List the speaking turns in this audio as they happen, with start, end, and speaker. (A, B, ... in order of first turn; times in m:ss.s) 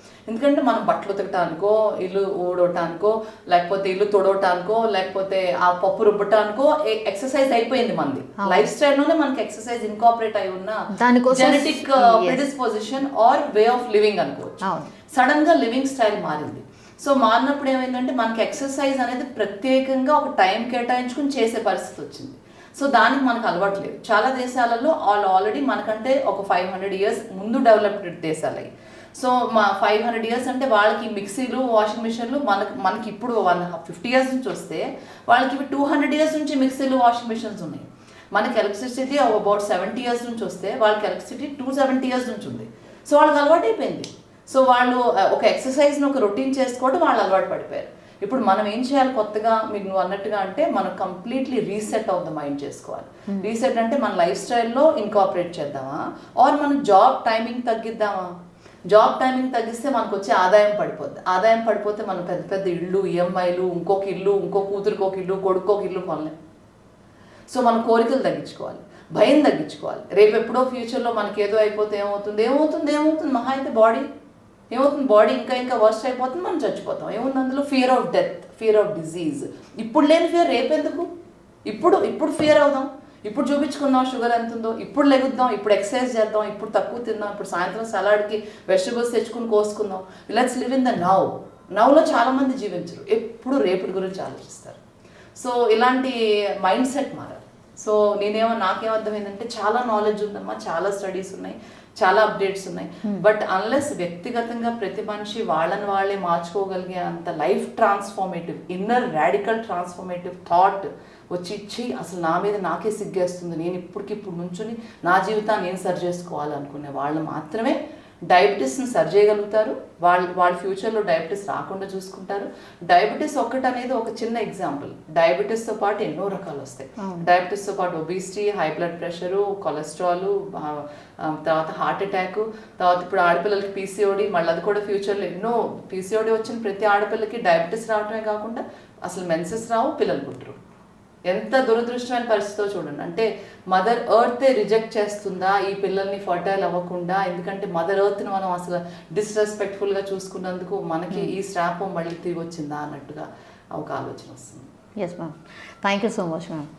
0:00.3-0:10.8 A
0:08.4-0:08.7 B
0:10.9-0:12.4 B
0:11.3-0:58.3 A
0:14.6-0:14.9 B
0:58.9-1:06.3 A
1:07.5-1:14.1 A
1:14.7-1:21.1 A
1:21.7-1:34.8 A
1:35.4-1:57.8 A
1:58.3-2:20.6 A
2:07.0-2:07.3 B
2:21.3-2:34.7 A
2:35.0-2:36.7 B